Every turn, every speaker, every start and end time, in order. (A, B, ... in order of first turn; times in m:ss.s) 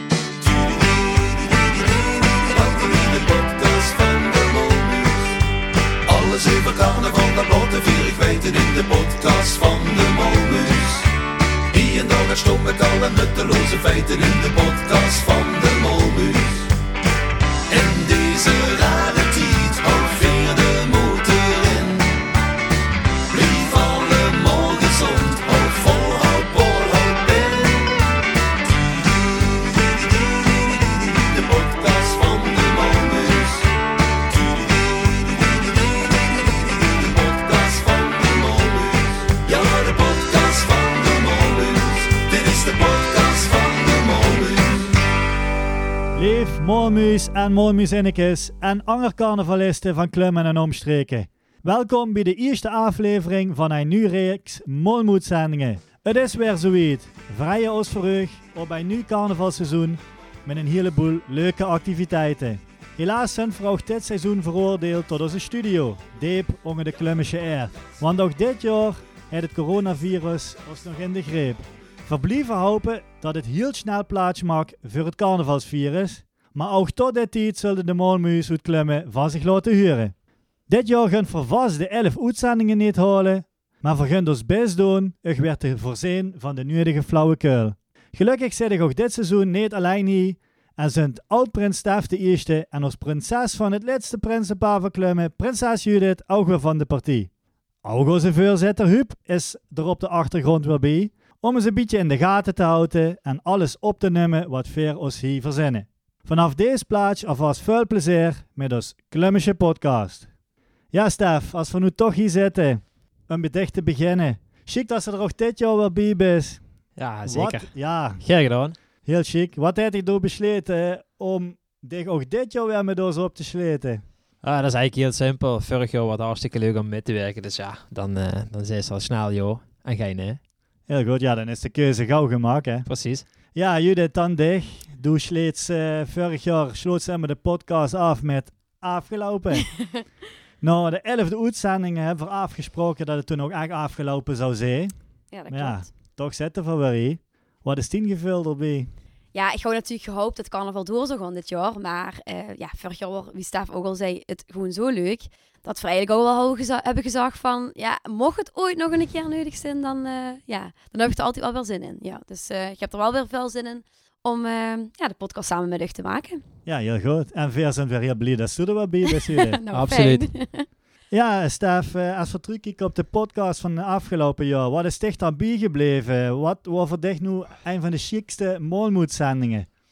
0:00.4-0:05.3 A
0:06.1-0:11.1 A
0:11.7-0:16.7 A
0:17.7-0:22.2 A
0:23.3-0:27.9 A
0:28.7-0:33.7 A
0:34.3-0:44.9 A
0:46.2-1:20.1 B
1:20.7-1:37.3 B
1:37.8-1:50.3 B
1:50.9-1:56.6 B
1:57.0-1:58.8 C
1:57.2-1:58.2 B
1:59.0-2:04.0 B
2:04.4-2:10.4 C
2:10.9-2:12.9 B
2:12.9-2:13.3 C
2:13.5-2:19.7 B
2:20.6-2:24.9 B
2:25.3-2:25.9 D
2:25.5-2:28.9 B
2:29.3-2:46.4 D
2:46.7-2:49.6 B
2:49.1-2:50.7 D
2:49.7-2:50.3 C
2:51.1-2:59.7 B